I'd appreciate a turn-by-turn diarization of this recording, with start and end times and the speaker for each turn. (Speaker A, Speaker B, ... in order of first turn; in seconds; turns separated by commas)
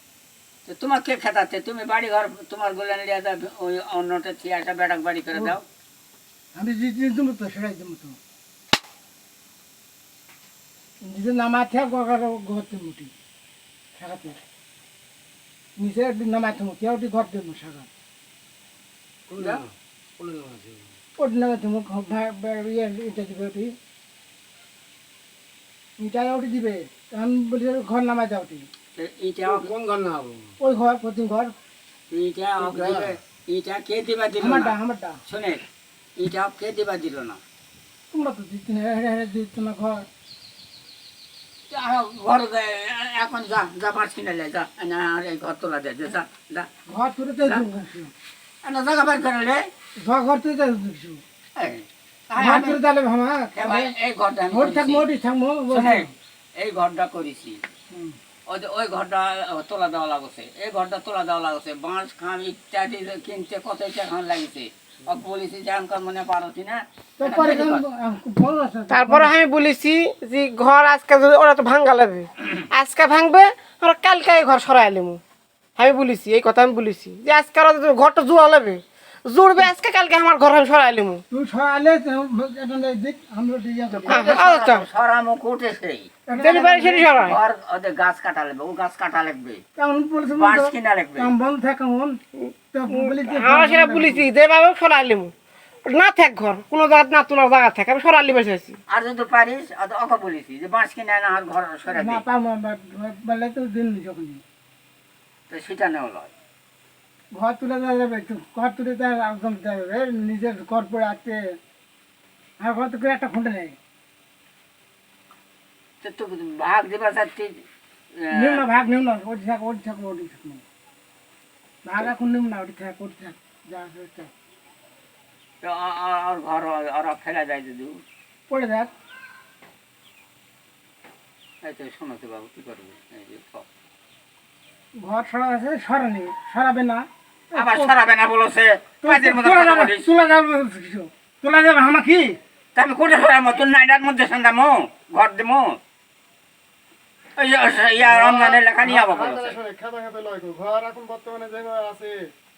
Speaker A: 0.7-5.6, Speaker B: 6.5-8.2, Speaker B: 11.0-13.1, Speaker B: 13.9-14.4, Speaker B: 15.8-17.9, Speaker C: 19.3-20.9, Speaker A: 19.4-19.6, Speaker B: 21.2-23.7, Speaker B: 26.0-28.7, Speaker A: 28.9-29.7, Speaker C: 29.4-30.5, Speaker B: 30.6-31.5, Speaker A: 32.1-35.6, Speaker C: 32.6-33.1, Speaker B: 34.4-35.2, Speaker A: 36.2-37.4, Speaker B: 38.1-40.1, Speaker A: 41.7-46.7, Speaker B: 46.9-48.1, Speaker A: 48.6-49.7, Speaker B: 50.0-51.2, Speaker A: 51.6-52.8, Speaker B: 52.4-53.9, Speaker A: 53.5-55.1, Speaker B: 54.5-56.1, Speaker A: 55.7-57.6, Speaker B: 57.9-58.2, Speaker A: 58.5-67.8, Speaker B: 67.2-69.3, Speaker D: 68.9-75.2, Speaker D: 75.8-81.2, Speaker B: 81.3-84.4, Speaker A: 84.0-86.1, Speaker D: 84.1-84.8, Speaker B: 86.3-87.2, Speaker D: 86.4-87.4, Speaker A: 87.2-89.6, Speaker B: 89.8-92.2, Speaker A: 90.3-91.3, Speaker D: 92.4-95.3, Speaker B: 92.7-94.3, Speaker D: 95.8-98.8, Speaker A: 98.9-102.2, Speaker B: 101.9-104.4, Speaker A: 105.5-106.3, Speaker B: 107.3-111.6, Speaker B: 112.6-113.8, Speaker A: 116.0-117.6, Speaker A: 118.2-118.7, Speaker B: 118.3-120.6, Speaker B: 121.8-124.3, Speaker A: 125.6-128.0, Speaker B: 128.5-128.9, Speaker A: 131.6-133.7, Speaker B: 134.9-137.9, Speaker A: 137.5-140.1, Speaker B: 139.0-142.4, Speaker A: 142.8-145.8, Speaker A: 147.4-149.6, Speaker E: 148.0-152.2